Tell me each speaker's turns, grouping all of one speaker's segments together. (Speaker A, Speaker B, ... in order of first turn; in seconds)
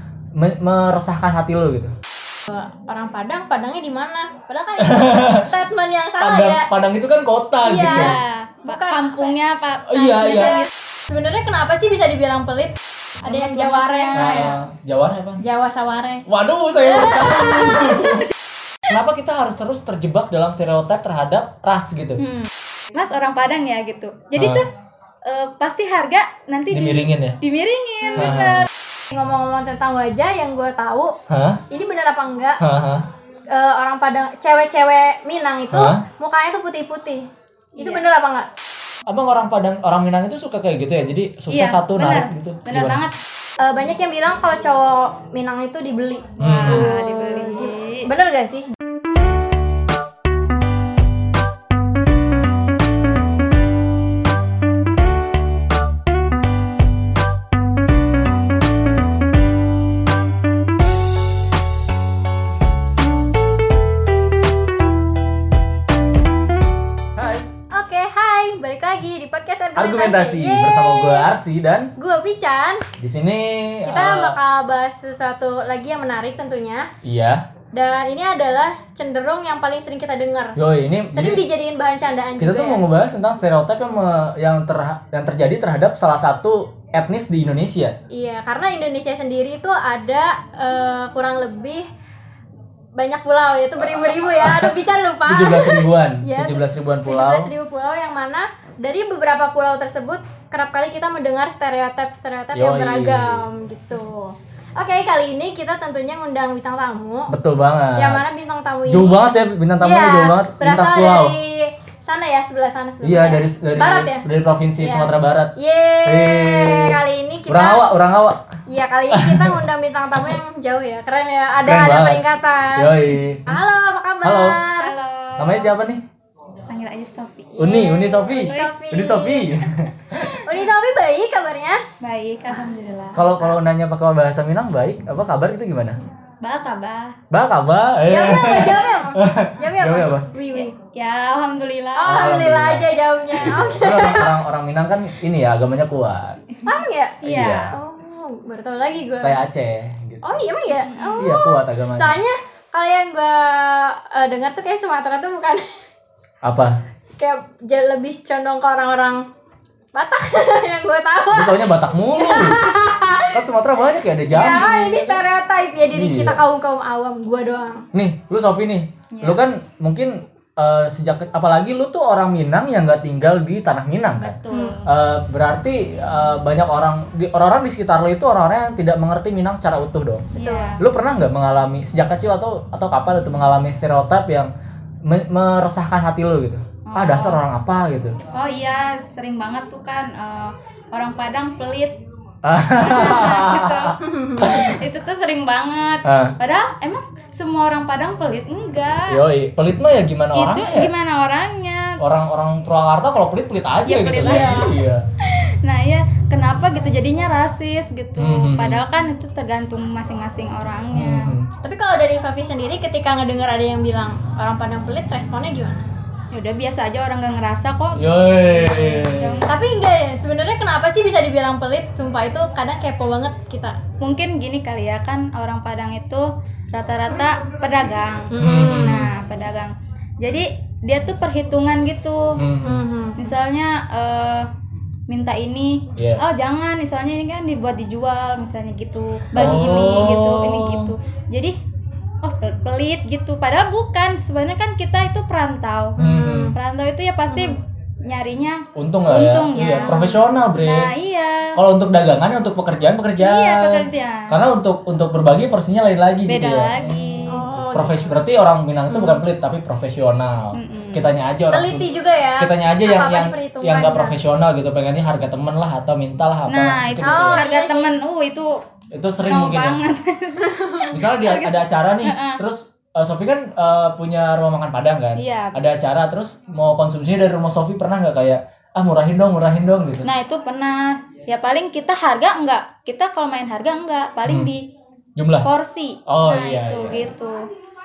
Speaker A: 0.3-1.9, 4.8-5.5, 6.2-8.1, 9.9-10.6, 14.1-15.4, 16.3-18.3, 18.9-22.2, 24.4-24.6, 26.7-27.4, 28.2-28.7, 31.3-31.6, 32.6-33.0, 35.7-36.0, 39.1-43.0, 46.4-46.9, 67.2-67.5, 69.8-71.9, 73.0-74.4, 77.0-77.5, 80.5-81.4, 82.4-88.0, 94.2-97.5, 102.5-103.5, 107.3-108.2, 108.9-111.3, 113.0-115.5, 116.0-118.4, 119.1-119.6, 121.6-122.2, 122.7-123.6, 124.2-124.6, 125.4-126.0, 127.6-130.4, 133.2-136.0, 137.3-140.3, 142.0-146.4, 147.2-147.7, 149.2-150.3, 151.2-152.2, 156.4-156.8, 161.3-162.6, 163.3-165.2, 165.9-166.4, 167.9-184.5, 185.0-188.2, 192.4-194.8, 196.0-196.4, 199.1-200.9, 202.0-205.0, 208.2-208.8, 210.9-211.5, 217.9-219.4, 228.4-229.1, 232.3-232.8, 235.9-236.2, 239.3-240.9, 246.0-246.5, 248.7-250.9, 251.5-267.5, 268.9-269.8, 270.9-280.1, 284.2-284.5, 285.2-285.5, 286.1-287.1
Speaker B: 2.5-6.7, 7.6-9.3, 10.2-14.5, 15.4-16.2, 16.8-18.0, 28.0-28.5, 29.1-31.1, 31.7-32.6, 33.5-37.2, 37.8-38.5, 43.6-48.7, 67.7-71.3, 72.0-72.8, 73.8-76.9, 77.7-80.6, 81.1-82.8, 88.1-91.8, 92.9-107.3, 108.0-109.2, 109.8-114.2, 114.8-118.0, 118.7-125.0, 127.6-129.6, 130.4-131.8, 138.1-140.7, 142.0-144.4, 146.7-149.4, 150.2-155.6, 157.2-159.2, 159.9-163.4, 164.3-167.8, 174.5-174.8, 180.4-180.7, 194.1-194.5, 204.2-204.7, 211.6-215.8, 219.4-223.8, 228.3-229.1, 232.6-233.2, 246.0-246.6, 247.3-247.6, 249.6-250.2, 257.3-258.1, 258.9-259.2, 261.5-264.2, 267.0-267.9, 270.4-270.9
Speaker C: 7.8-10.7, 13.2-14.5, 22.2-24.6, 25.2-28.7, 37.8-38.0, 41.5-43.1, 46.4-48.1, 124.8-125.7, 126.7-128.9, 132.0-133.6, 136.4-137.2, 140.5-142.4, 146.5-147.7, 150.7-151.3, 169.1-169.4, 174.2-174.9, 180.3-180.8, 186.8-187.4, 188.3-192.0, 192.7-199.2, 200.3-202.0, 203.8-204.7, 205.2-211.3, 216.3-219.7, 224.0-232.4, 233.2-234.5, 235.1-241.6, 242.2-246.0, 246.5-251.6, 253.2-254.4, 256.2-257.5, 260.5-261.1, 266.5-268.6, 269.2-272.4, 275.1-275.6, 280.0-284.6, 285.4-287.5